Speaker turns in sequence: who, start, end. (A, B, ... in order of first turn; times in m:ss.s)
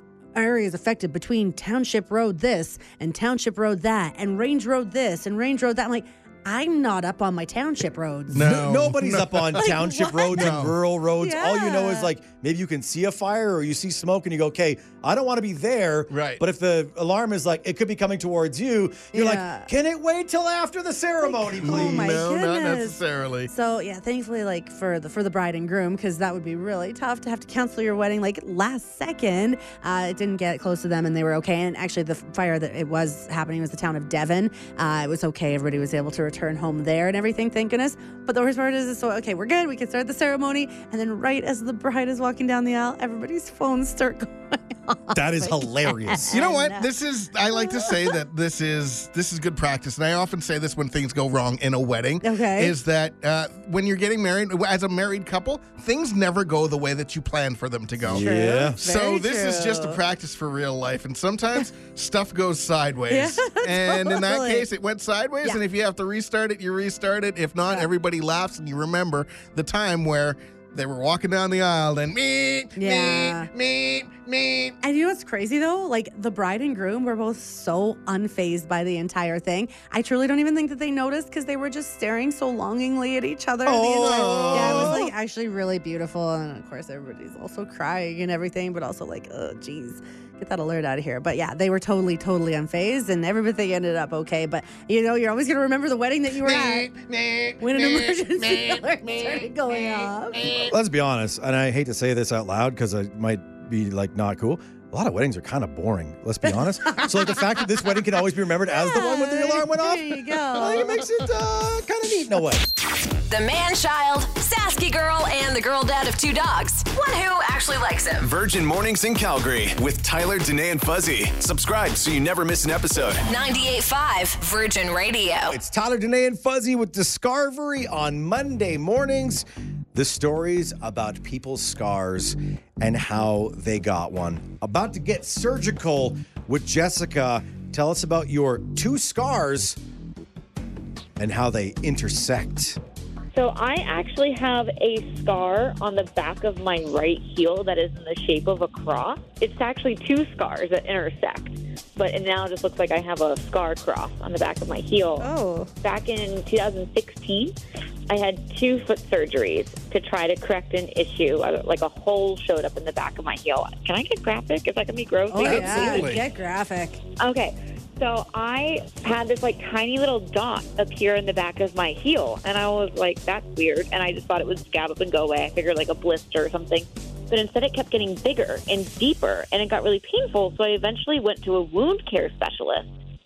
0:00.4-0:08.4 A
0:08.3-0:09.7 B
0:08.3-0:22.3 C
0:09.7-0:10.4 A
0:10.3-0:10.8 B
0:11.2-0:12.1 A
0:16.1-0:16.4 B
0:19.1-0:19.7 A
0:21.2-0:47.0 A
0:21.6-0:23.5 B
0:45.1-0:46.4 C
0:46.3-1:14.8 B
0:47.5-0:48.2 A
0:52.2-0:52.8 A
0:58.0-0:58.8 C
0:58.1-1:00.0 A
1:03.1-1:04.7 A
1:12.8-1:13.5 A
1:14.8-1:37.0 A
1:23.6-1:25.1 C
1:23.9-1:25.0 B
1:36.3-1:40.7 B
1:37.6-1:40.6 A
1:40.5-1:52.6 C
1:46.4-1:47.3 A
1:48.7-1:51.0 A
1:53.3-1:58.2 D
1:58.2-2:03.3 E
2:03.2-2:05.6 D
2:05.5-2:19.8 C
2:21.2-2:22.8 C
2:23.3-2:35.3 F
2:35.2-2:35.7 A
2:35.8-2:37.6 F
2:38.1-2:46.1 F
2:45.3-2:47.0 A
2:45.3-2:46.2 B
2:47.2-3:02.9 F